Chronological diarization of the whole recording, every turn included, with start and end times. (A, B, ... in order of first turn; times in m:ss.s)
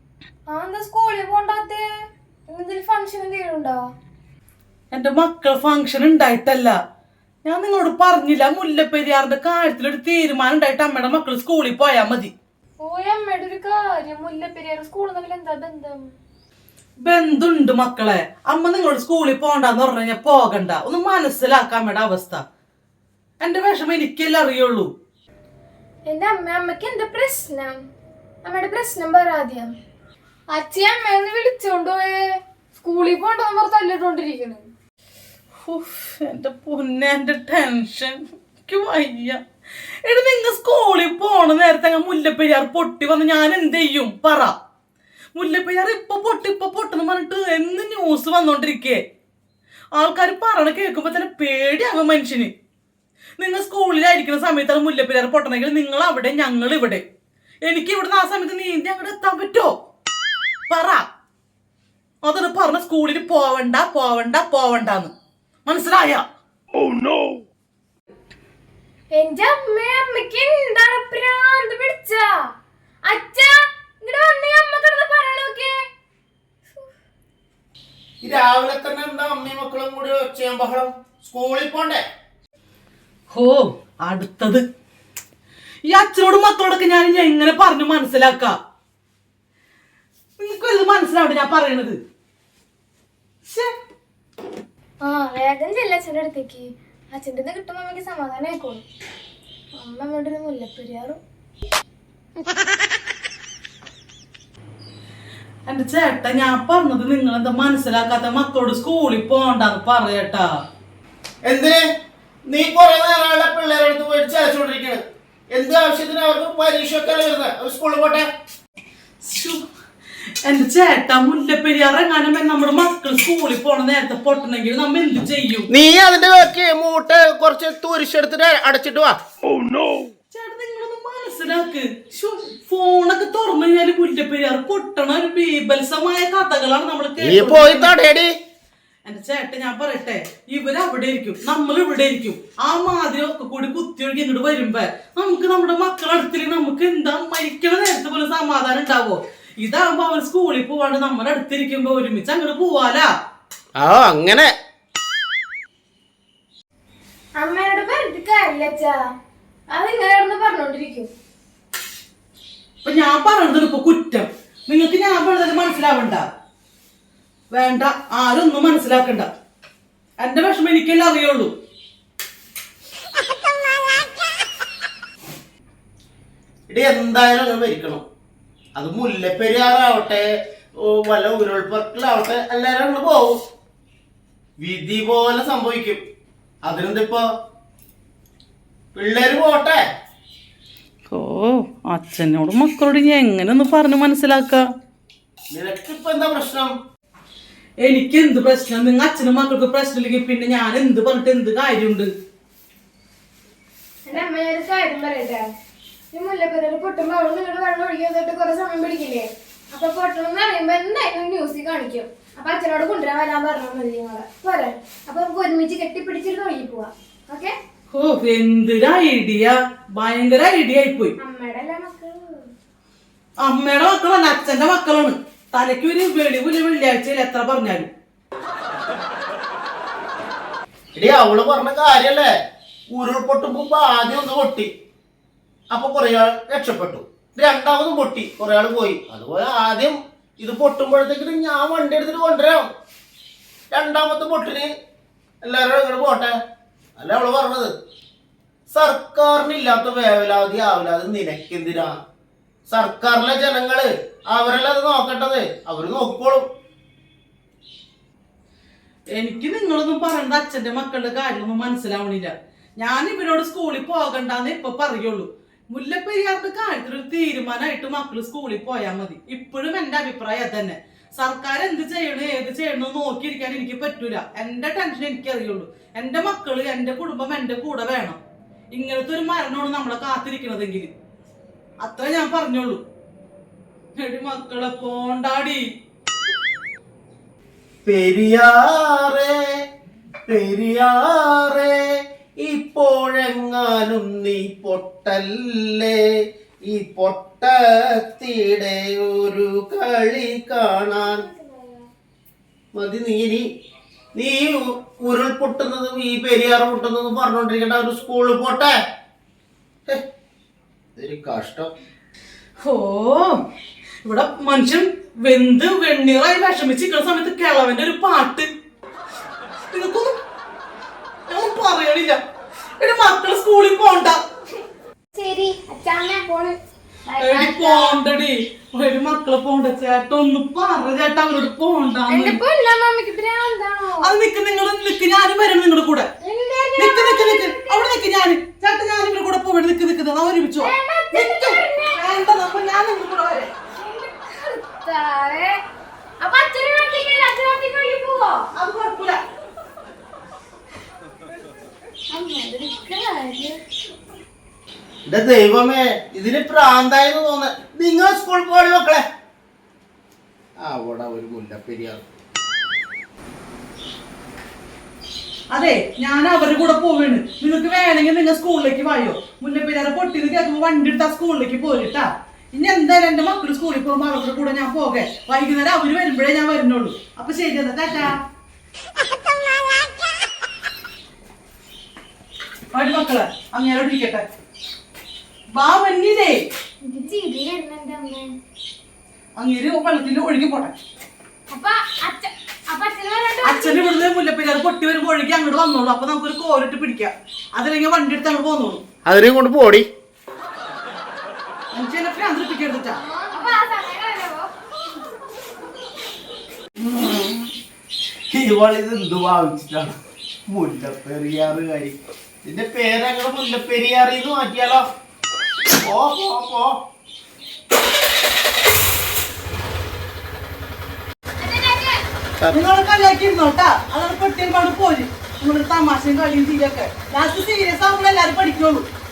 0:00.5-0:01.8 A
0:02.5-0:03.8 A
0:04.9-0:06.8 B
0:07.4-0:12.3 B
0:12.8-0:16.1 A
0:17.0-0:22.4 B
0:23.4-0:24.9 B
0:26.0-0:27.8 A
0:28.4-0:29.7 A
0:30.5-0:32.2 A
0:32.8-0:34.7 A
0:35.6-0:39.4 B
0:40.0-0:44.5 B
0:45.3-0:49.0 B
0:49.9-0:52.5 B
0:53.4-0:57.0 B
0:57.6-0:59.7 B
1:00.7-1:01.0 B
1:02.2-1:05.1 B
1:05.6-1:06.2 B
1:09.1-1:12.3 A
1:13.1-1:15.8 A
1:18.2-1:22.0 C
1:23.3-1:24.6 B
1:25.8-1:28.5 B
1:30.4-1:32.0 B
1:35.0-1:38.8 A
1:39.8-1:41.2 A
1:45.6-1:50.5 B
1:51.4-1:51.8 C
1:52.5-1:55.0 C
1:55.5-1:58.3 C
1:59.2-1:59.6 B
2:00.4-2:05.7 B
2:05.7-2:09.2 C
2:10.3-2:18.0 B
2:17.2-2:18.3 C
2:19.0-2:33.1 B
2:33.8-2:34.5 C
2:37.4-2:39.0 A
2:39.7-2:41.1 A
2:42.8-2:46.2 B
2:47.5-2:49.3 B
2:50.2-2:51.5 B
2:56.7-2:58.0 C
2:58.8-3:00.3 C
3:00.8-3:03.4 C
3:04.6-3:06.0 C
3:06.6-3:07.2 C
3:08.9-3:09.8 C
3:11.1-3:14.7 B
3:15.5-3:16.7 C
3:17.8-3:22.1 B
3:24.0-3:25.4 A
3:26.1-3:37.5 A
3:37.9-3:41.1 B
3:41.2-3:42.2 A
3:43.4-3:47.9 B
3:51.0-3:52.3 C
3:52.9-3:54.7 C
3:55.7-4:02.6 C
4:03.7-4:04.7 C
4:05.4-4:06.3 C
4:07.0-4:07.7 C
4:08.7-4:11.9 C
4:12.7-4:16.4 C
4:19.1-4:38.2 B
4:38.7-4:40.9 B
4:41.8-4:42.8 B
4:44.0-4:45.6 B
4:47.8-4:49.3 C
4:50.3-4:51.8 C
4:52.4-4:56.0 C
4:56.7-5:01.2 C
5:00.9-5:01.8 A
5:02.7-5:03.4 C
5:04.1-5:08.7 C
5:11.0-5:11.7 C
5:12.6-5:13.4 B
5:14.0-5:18.5 B
5:19.7-5:20.2 B
5:21.3-5:22.2 B
5:22.8-5:24.2 B
5:25.2-5:28.0 A
5:27.2-5:32.4 B
5:32.1-5:34.1 A
5:34.0-5:36.1 B
5:36.2-5:38.0 A
5:36.8-5:43.5 B
5:40.6-5:42.1 A
5:43.8-5:45.6 A
5:46.2-5:48.4 A
5:48.5-5:49.2 B
5:52.1-5:53.6 A
5:55.0-5:59.0 C
6:00.6-6:02.0 C
6:05.5-6:18.2 B
6:22.7-6:24.2 B
6:25.5-6:26.4 B
6:26.8-6:28.4 A
6:29.4-6:30.7 B
6:31.5-6:33.8 A
6:33.4-6:38.8 B
6:39.0-6:39.9 C
6:41.7-6:43.0 B
6:43.0-6:44.5 A
6:48.3-6:49.9 C
6:50.5-6:54.8 C
6:55.8-6:56.8 C
7:01.4-7:02.0 A
7:02.5-7:08.8 B